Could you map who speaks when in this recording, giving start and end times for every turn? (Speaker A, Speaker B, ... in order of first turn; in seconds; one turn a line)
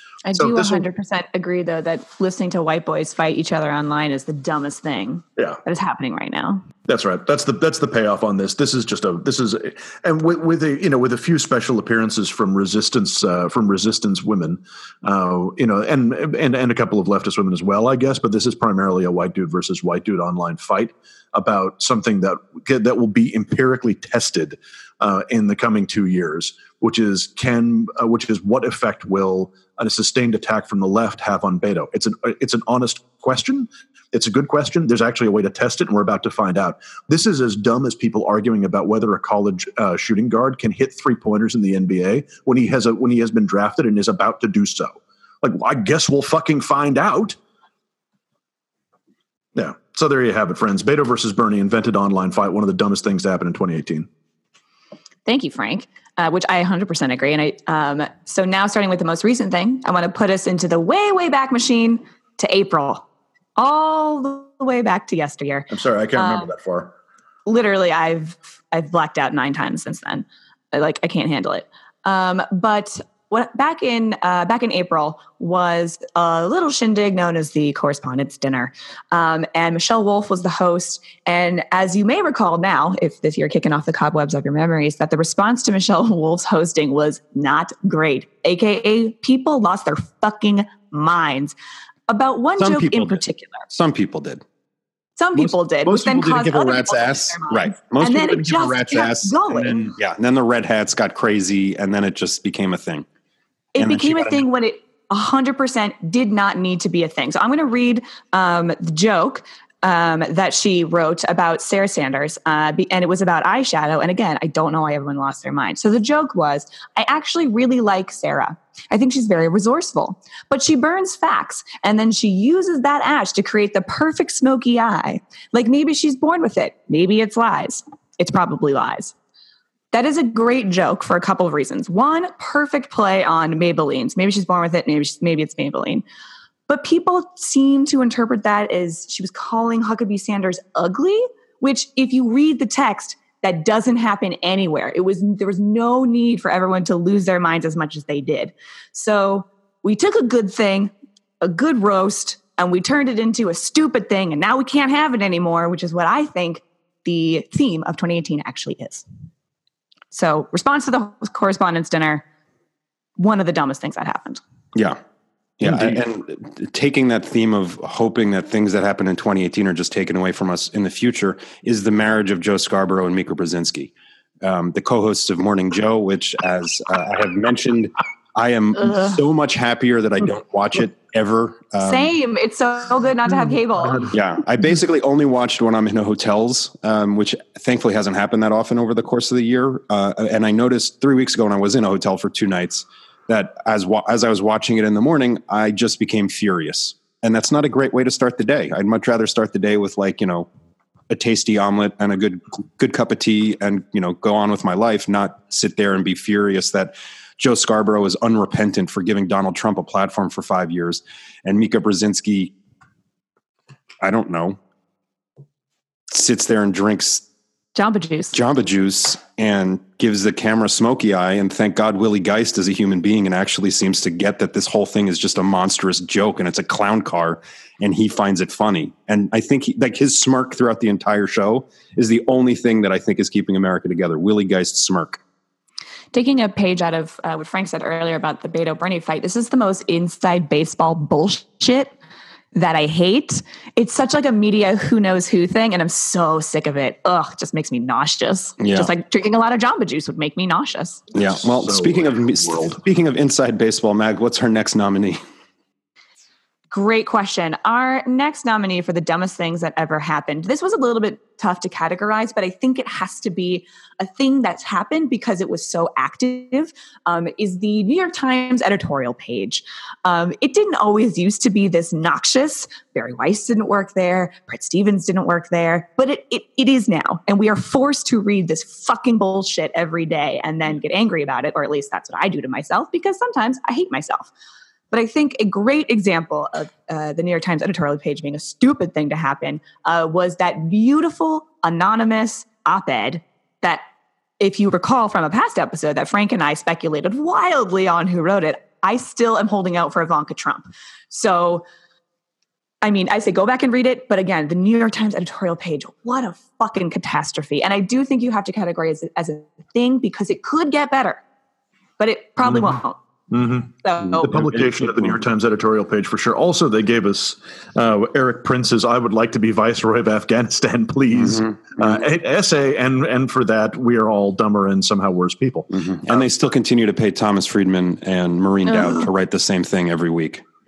Speaker A: 0.2-6.6
Speaker B: 0.3-0.9
Speaker B: 6.9-47.4
Speaker B: 49.5-54.1
Speaker A: 55.2-63.0
Speaker A: 63.6-66.5
Speaker B: 65.7-66.9
Speaker A: 67.5-91.5
Speaker A: 92.1-93.7
Speaker C: 92.6-94.4
Speaker A: 95.2-99.9
Speaker C: 95.3-103.0
Speaker A: 103.7-129.1
Speaker C: 103.8-104.5
Speaker A: 129.9-136.0
Speaker A: 136.7-159.0
Speaker A: 160.1-162.2
Speaker A: 163.2-164.4
Speaker C: 165.6-173.9
Speaker C: 174.4-182.1
Speaker A: 178.9-179.2
Speaker A: 181.8-184.1
Speaker C: 184.1-200.5
Speaker C: 201.1-212.5
Speaker C: 214.0-214.6
Speaker C: 216.1-217.2
Speaker A: 217.7-218.4
Speaker C: 218.3-235.2
Speaker A: 236.1-241.9
Speaker A: 242.5-251.0
Speaker C: 248.6-248.9
Speaker C: 251.1-255.2
Speaker B: 251.1-252.8
Speaker A: 256.7-284.3
Speaker A: 284.9-293.8
Speaker A: 294.4-301.6
Speaker A: 302.8-311.2
Speaker A: 312.0-313.0
Speaker B: 313.3-326.2
Speaker A: 313.8-314.3
Speaker C: 314.0-315.2
Speaker C: 321.1-322.0
Speaker C: 325.7-330.4
Speaker A: 328.7-329.1